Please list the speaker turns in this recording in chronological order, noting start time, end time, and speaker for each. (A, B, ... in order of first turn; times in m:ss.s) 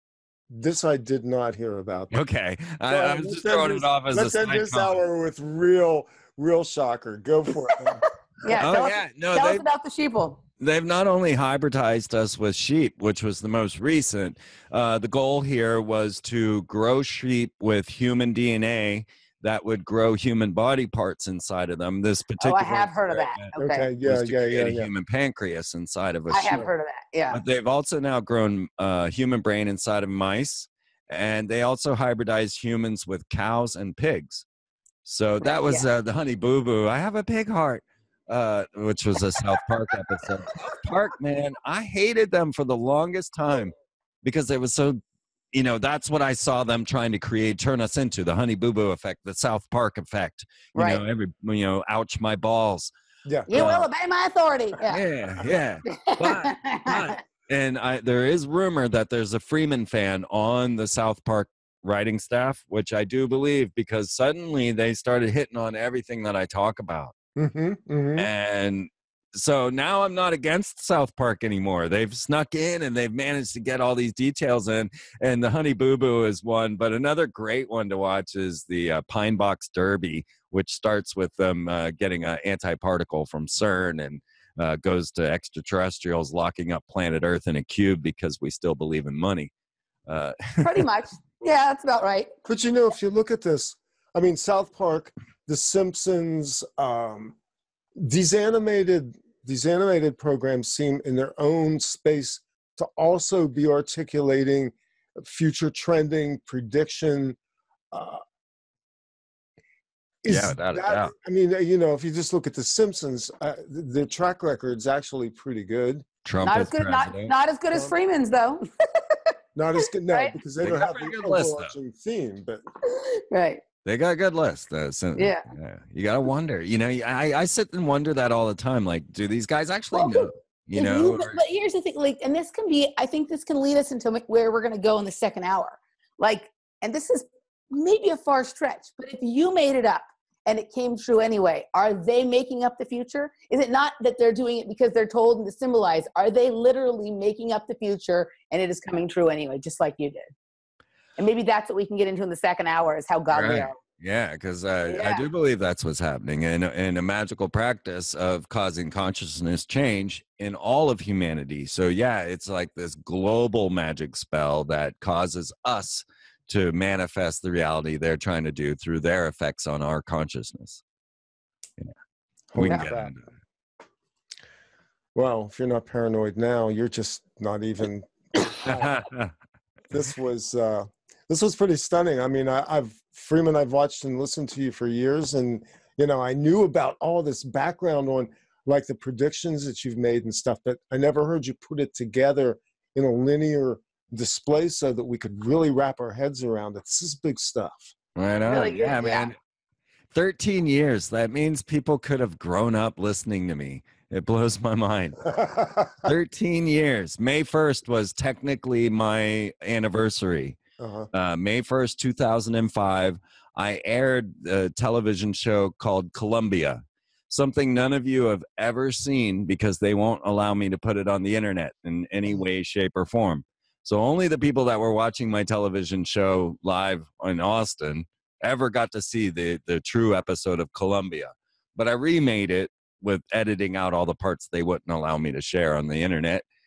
0:00.5-0:02.2 A
0:02.1-0:05.0 B
0:02.9-0:08.0 A
0:08.4-0:10.4 C
0:08.5-0:09.6 B
0:10.6-0:23.5 B
0:22.4-0:23.9 C
0:23.6-0:24.9 A
0:24.0-0:26.7 B
0:26.3-0:27.4 C
0:27.3-0:34.4 B
0:35.0-0:45.0 B
0:35.4-0:35.9 C
0:45.5-0:52.9 B
0:50.8-0:51.0 C
0:53.5-0:55.0 C
0:53.5-0:53.9 B
0:54.9-1:07.1 B
0:55.9-0:57.2 C
1:07.4-1:08.3 A
1:08.2-1:29.5 B
1:30.1-1:30.8 B
1:30.6-1:32.3 C
1:32.4-1:37.4 A
1:38.0-1:47.4 A
1:47.9-1:48.2 A
1:50.2-1:56.1 A
1:50.3-1:51.1 B
1:56.2-1:57.3 B
1:56.4-1:59.3 C
1:59.6-2:02.6 A
2:00.1-2:00.4 C
2:00.6-2:01.7 B
2:02.8-2:03.6 C
2:03.8-2:11.4 B
2:05.2-2:05.4 C
2:09.9-2:30.3 C
2:31.2-2:33.8 C
2:33.3-2:50.8 B
2:34.9-2:35.3 C
2:52.5-2:53.1 A
2:52.6-2:53.3 B
2:55.1-2:59.0 A
2:58.6-2:59.3 B
2:59.9-3:18.0 A
3:18.2-3:19.4 B
3:18.4-3:19.3 C
3:20.1-3:25.4 B
3:25.3-3:26.1 A
3:26.0-3:30.6 B
3:30.8-3:31.1 A
3:31.1-3:56.4 B